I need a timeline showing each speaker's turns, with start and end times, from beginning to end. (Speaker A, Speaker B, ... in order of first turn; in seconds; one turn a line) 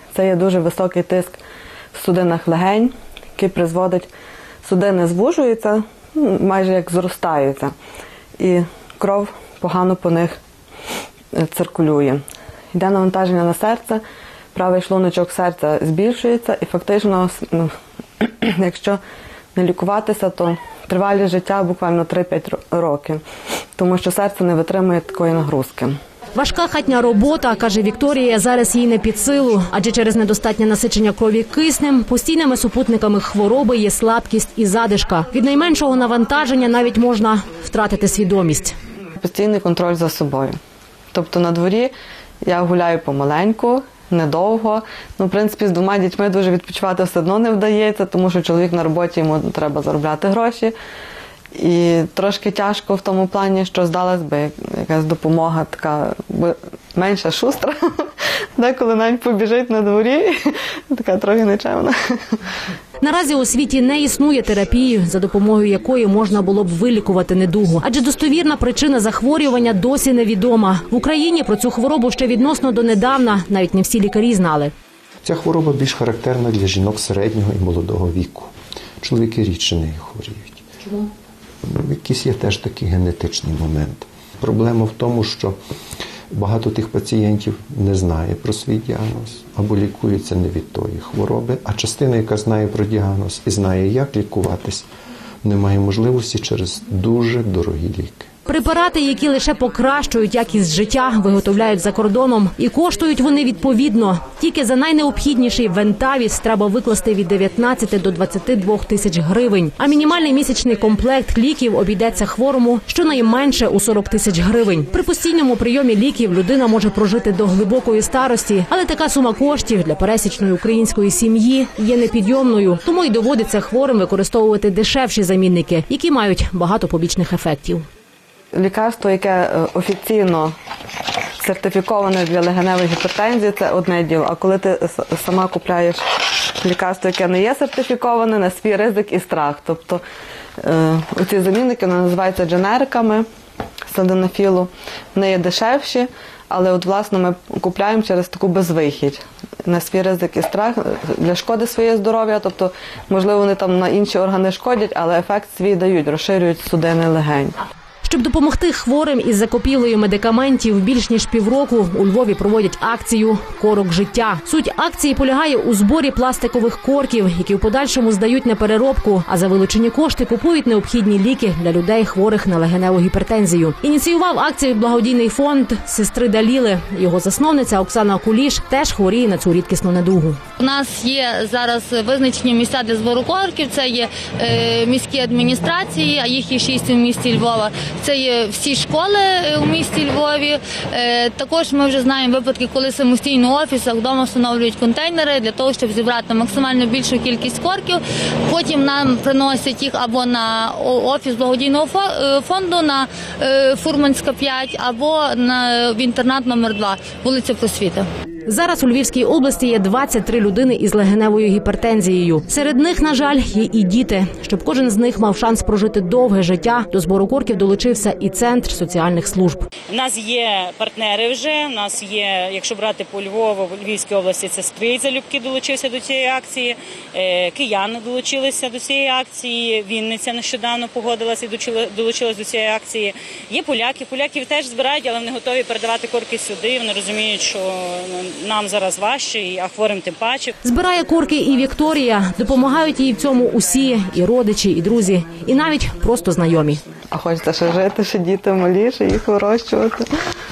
Speaker A: 0.1-1.4
Speaker A: 1.9-4.1
Speaker A: 4.7-7.7
Speaker A: 8.4-10.4
Speaker A: 11.3-12.2
Speaker A: 12.7-14.0
Speaker A: 14.5-19.0
Speaker A: 19.6-23.2
Speaker A: 23.8-26.0
Speaker B: 26.4-38.8
Speaker A: 39.2-40.6
Speaker A: 41.1-50.7
Speaker A: 51.5-62.0
Speaker B: 63.0-74.7
Speaker C: 75.2-80.6
Speaker C: 81.6-85.6
Speaker C: 86.3-94.9
Speaker C: 95.4-98.3
Speaker B: 98.5-127.8
Speaker A: 128.5-130.6
Speaker A: 131.4-136.0
Speaker A: 136.6-140.0
Speaker A: 140.6-143.3
Speaker A: 143.9-157.6
Speaker B: 158.0-180.4
Speaker D: 180.6-208.1
Speaker B: 208.5-219.6
Speaker E: 219.9-240.5
Speaker B: 240.6-246.8
Speaker A: 247.1-250.1